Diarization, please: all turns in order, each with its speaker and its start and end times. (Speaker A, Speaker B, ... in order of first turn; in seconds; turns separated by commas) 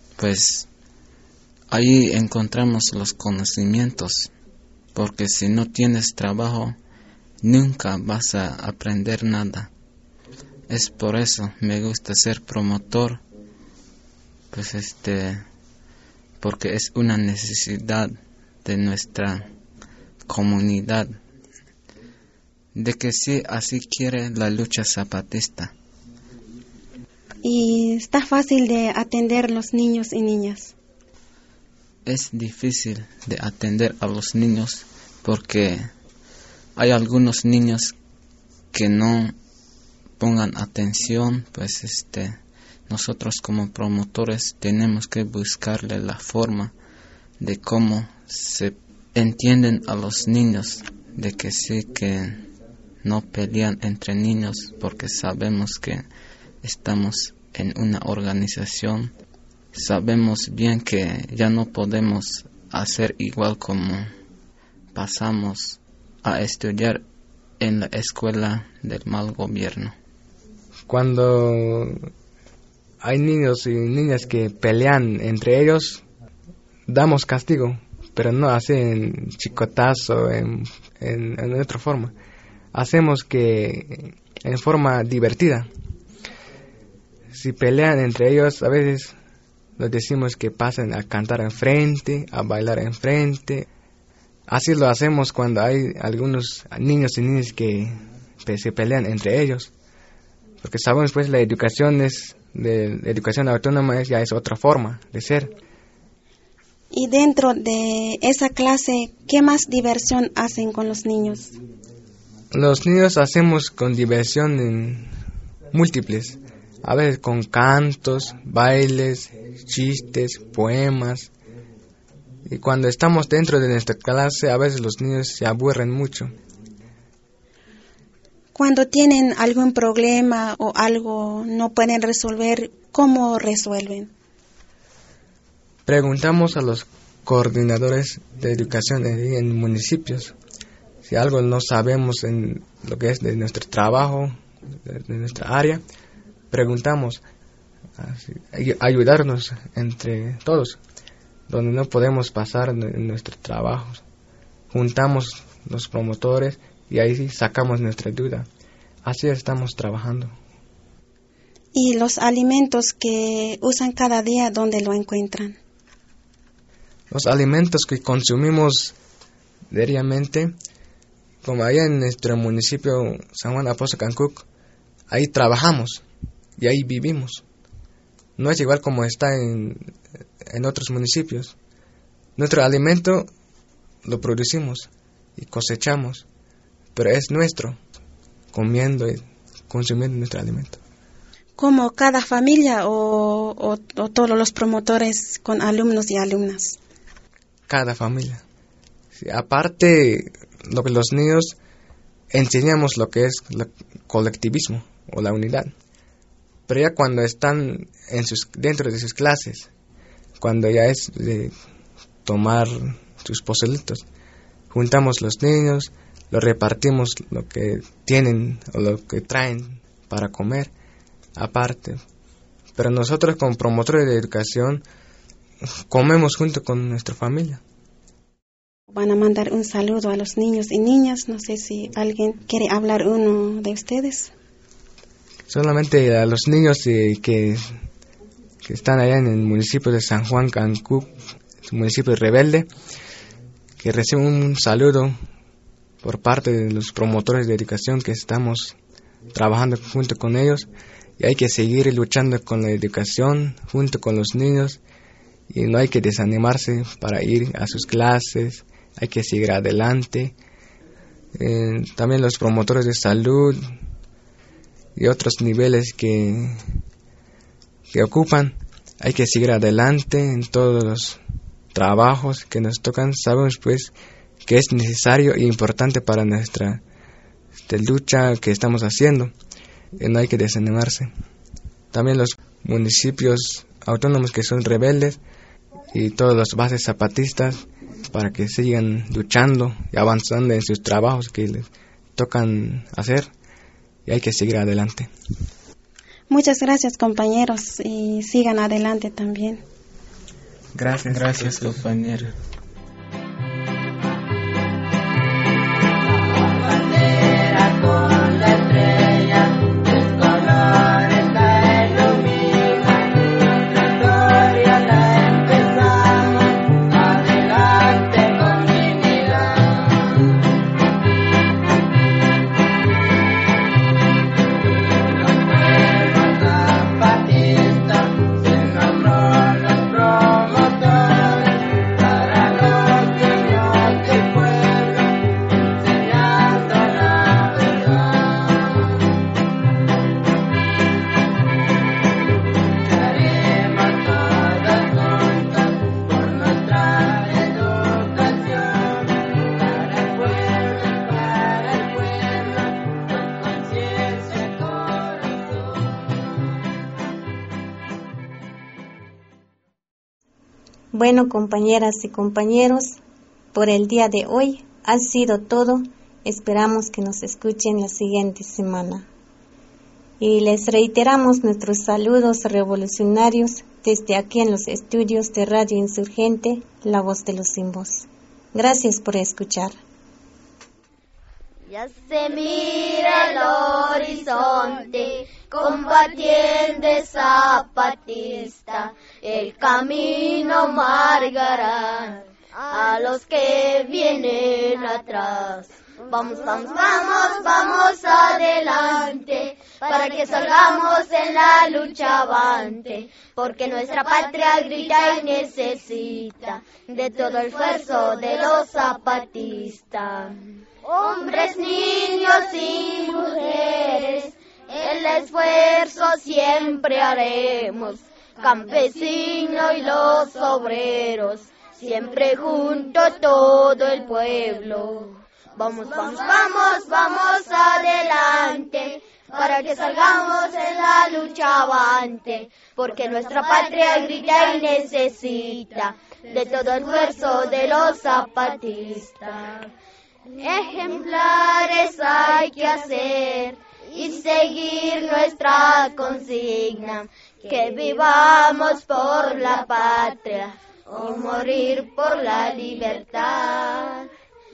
Speaker A: 0.2-0.7, Speaker A: 1.7-4.3, Speaker A: 5.0-6.8, Speaker A: 7.4-9.7, Speaker A: 10.7-13.2, Speaker A: 14.5-15.5, Speaker A: 16.4-19.5, Speaker A: 20.3-21.2, Speaker A: 22.8-25.7, Speaker B: 27.4-30.7, Speaker A: 32.1-35.9, Speaker A: 36.8-37.9, Speaker A: 38.7-39.4, Speaker A: 40.2-46.7, Speaker A: 47.4-52.5, Speaker A: 53.0-56.1, Speaker A: 56.6-59.1, Speaker A: 59.7-64.1, Speaker A: 64.9-67.0, Speaker A: 67.6-70.0, Speaker C: 70.9-72.0, Speaker C: 73.0-76.0, Speaker C: 76.9-82.1, Speaker C: 82.7-85.7, Speaker C: 87.3-89.1, Speaker C: 89.8-93.7, Speaker C: 94.5-99.7, Speaker C: 100.6-105.5, Speaker B: 106.9-111.6, Speaker C: 112.5-115.1, Speaker C: 115.7-121.3, Speaker C: 122.5-126.3, Speaker B: 128.6-134.1, Speaker C: 135.9-140.3, Speaker C: 141.1-145.8, Speaker C: 146.5-147.2, Speaker C: 148.0-150.8, Speaker C: 151.5-154.0, Speaker C: 154.7-158.5, Speaker C: 159.0-160.3, Speaker B: 161.8-165.6, Speaker C: 167.1-169.0, Speaker C: 169.7-170.5, Speaker C: 171.4-174.4, Speaker C: 175.1-176.0, Speaker C: 176.6-177.4, Speaker C: 178.4-179.9, Speaker C: 180.5-181.6, Speaker C: 182.4-183.3, Speaker C: 184.1-186.3, Speaker C: 186.9-187.8, Speaker C: 188.5-190.8, Speaker B: 191.6-196.8, Speaker C: 197.7-198.4, Speaker C: 199.2-201.6, Speaker C: 202.3-205.7, Speaker C: 206.7-209.7, Speaker C: 210.4-211.5, Speaker C: 212.2-214.1, Speaker C: 214.7-220.7, Speaker C: 221.4-222.0, Speaker C: 222.8-224.8, Speaker C: 225.9-227.6, Speaker B: 228.9-234.3, Speaker C: 235.5-237.7, Speaker C: 238.6-241.1, Speaker C: 241.7-242.7, Speaker C: 243.8-245.2, Speaker C: 246.0-248.8, Speaker C: 249.3-254.8, Speaker C: 255.5-260.3, Speaker C: 261.4-263.6, Speaker C: 265.0-266.6, Speaker C: 267.9-271.2, Speaker C: 271.7-273.9, Speaker C: 274.4-276.8, Speaker C: 277.7-279.3, Speaker C: 280.0-281.1, Speaker C: 281.9-285.2, Speaker C: 285.9-293.3, Speaker C: 294.1-295.1, Speaker B: 296.3-299.6, Speaker C: 300.8-301.8, Speaker A: 301.1-302.3, Speaker D: 360.9-363.0, Speaker D: 363.5-369.1, Speaker D: 370.2-379.8, Speaker E: 381.7-439.7, Speaker E: 440.3-454.1